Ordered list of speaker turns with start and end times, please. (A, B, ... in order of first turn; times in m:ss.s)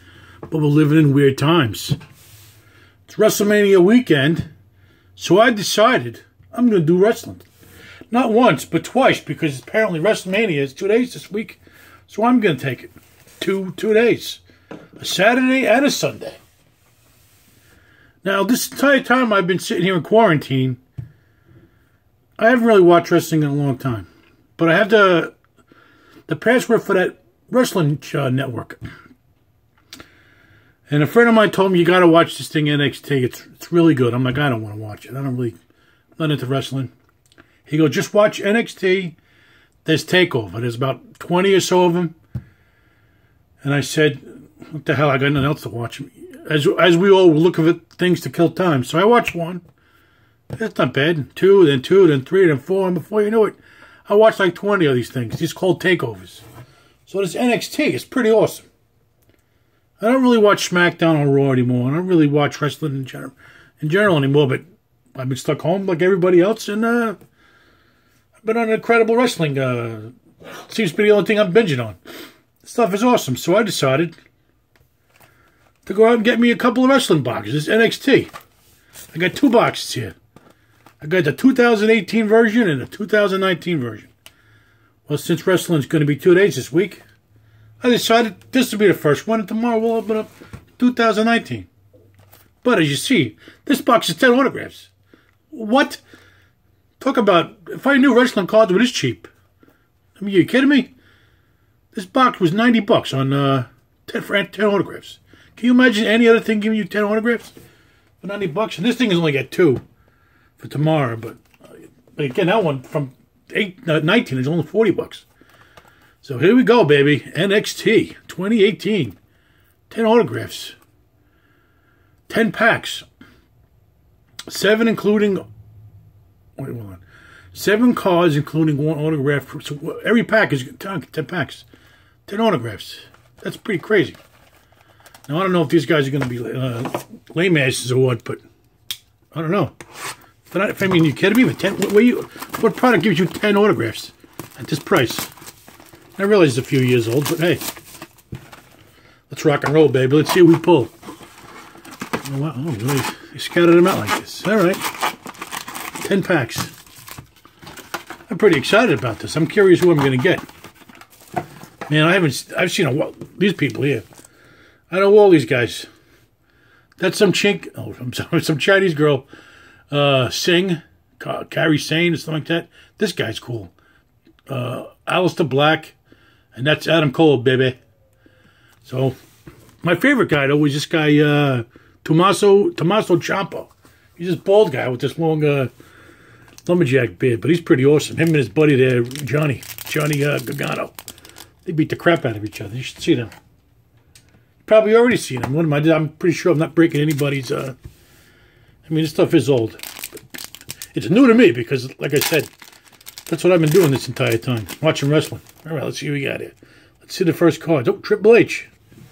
0:00.5-0:02.0 A
0:03.1-0:04.5 A
0:05.2-0:07.5 A
0:08.1-0:14.4 A
0:15.0-0:16.4 A
0:18.2-0:20.8 A
0:22.4-0:25.3 A
0:26.3-0:28.8 A
0:30.9-0:35.5 A
0:36.2-0:36.9 A
0:37.6-0:39.2 A
0:39.8-0:42.2 A
0:43.6-0:49.6 A
0:50.5-0:56.4 A
0:57.0-0:58.6 A
1:00.0-1:04.6 A
1:05.1-1:07.2 A
1:08.4-1:12.0 A
1:12.6-1:14.2 A
1:15.8-1:18.3 A
1:19.1-1:20.2 A
1:21.0-1:24.1 A
1:25.0-1:27.0 A
1:27.8-1:31.7 A
1:32.6-1:34.9 A
1:35.5-1:36.0 A
1:37.0-1:39.3 A
1:40.2-1:40.9 A
1:41.9-1:47.5 A
1:48.2-1:49.8 A
1:50.6-1:51.4 A
1:52.2-1:55.2 A
1:56.2-1:59.2 A
1:59.9-2:00.8 A
2:02.3-2:03.0 A
2:04.5-2:05.4 A
2:06.6-2:11.6 A
2:12.3-2:14.2 A
2:15.3-2:18.4 A
2:19.3-2:19.7 A
2:20.5-2:25.3 A
2:26.2-2:27.6 A
2:29.3-2:30.9 A
2:32.2-2:34.9 A
2:36.0-2:36.7 A
2:38.3-2:40.4 A
2:41.9-2:44.0 A
2:44.9-2:45.9 A
2:47.0-2:49.3 A
2:49.9-2:53.7 A
2:54.5-2:56.0 A
2:56.5-2:57.8 A
2:58.8-2:59.2 A
2:59.8-3:05.7 A
3:06.6-3:11.0 A
3:11.6-3:13.3 A
3:14.6-3:17.8 A
3:18.9-3:19.8 A
3:20.9-3:22.5 A
3:23.3-3:28.7 A